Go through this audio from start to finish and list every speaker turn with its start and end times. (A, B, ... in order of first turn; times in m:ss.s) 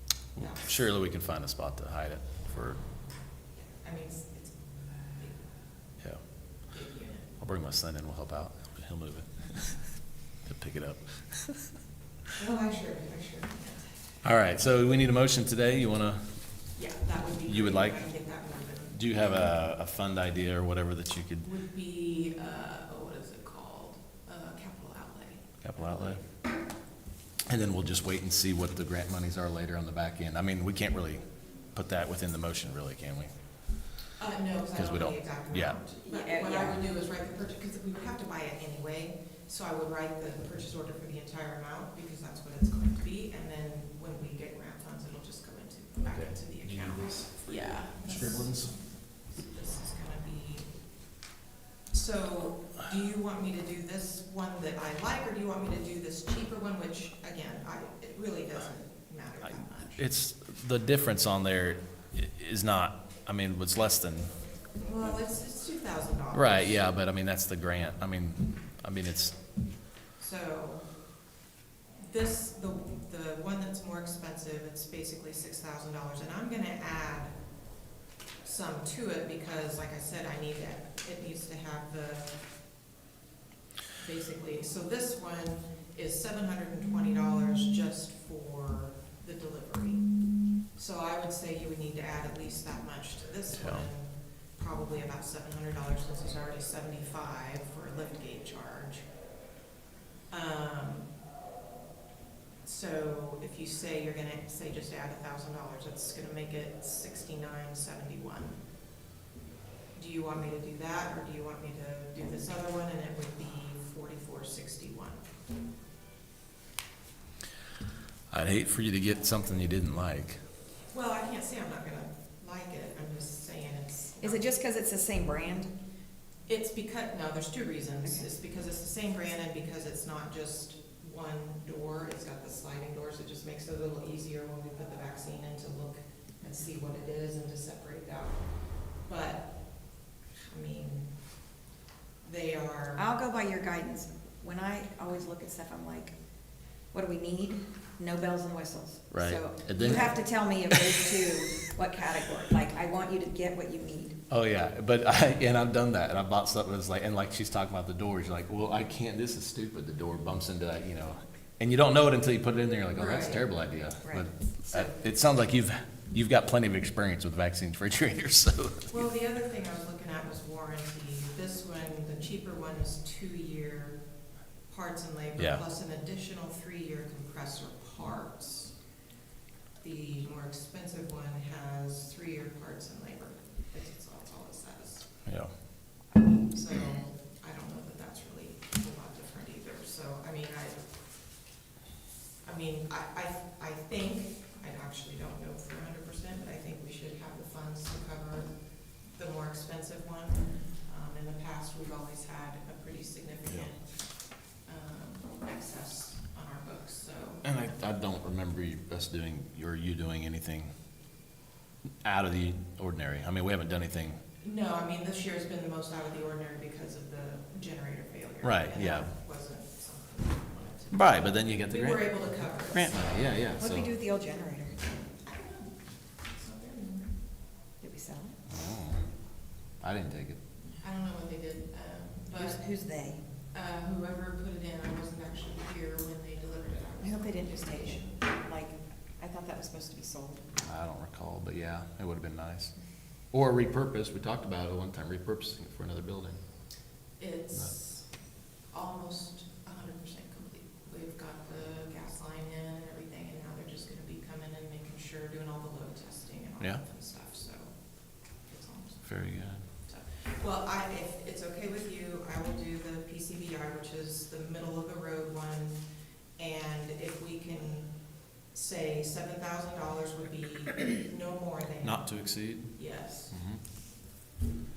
0:00.4-0:02.8 A
0:00.4-0:00.7 B
0:03.6-0:04.6 B
0:05.1-0:05.6 B
0:06.7-0:07.3 B
0:07.4-0:11.7 A
0:12.4-0:13.9 B
0:14.2-0:16.2 A
0:16.8-0:19.0 B
0:17.5-0:18.1 A
0:18.9-0:21.5 A
0:21.4-0:26.2 B
0:25.6-0:26.2 A
0:27.5-0:33.3 A
0:34.2-0:50.8 B
0:34.8-0:35.8 A
0:36.0-0:36.8 C
0:46.1-0:48.8 A
0:51.9-1:00.0 B
0:59.8-1:04.3 A
1:04.8-1:06.8 B
1:06.3-1:09.4 A
1:10.2-1:10.9 B
1:12.0-1:17.4 B
1:18.4-1:22.4 B
1:24.0-1:39.1 B
1:33.5-1:33.9 A
1:40.3-1:41.1 B
1:42.6-1:48.6 B
1:49.9-1:55.2 B
1:58.3-2:00.4 A
2:00.9-2:04.6 B
2:04.2-2:05.7 C
2:06.5-2:21.4 B
2:22.2-2:23.1 B
2:23.0-2:26.2 C
2:26.8-2:34.2 C
2:29.1-2:31.1 A
2:34.3-2:48.9 A
2:42.9-2:43.5 B
2:44.0-2:45.0 C
2:48.9-2:54.0 B
2:54.7-2:58.8 B
2:55.4-2:55.6 A
2:59.8-3:05.3 B
3:05.2-3:05.5 A
3:06.5-3:11.0 B
3:12.4-3:27.4 B
3:27.4-3:30.7 A
3:32.0-3:34.2 A
3:34.4-3:43.2 B
3:38.4-3:39.1 A
3:40.9-3:43.9 A
3:43.6-3:44.8 C
3:45.2-3:47.2 B
3:47.8-3:48.4 C
3:48.5-3:49.1 A
3:49.8-3:50.4 A
3:50.8-3:52.6 B
3:52.3-3:53.2 C
3:53.5-3:58.1 B
3:57.0-4:00.4 C
4:00.6-4:02.7 A
4:03.3-4:06.4 A
4:07.2-4:25.8 B
4:19.0-4:19.6 A
4:26.4-4:33.4 B
4:31.8-4:33.6 A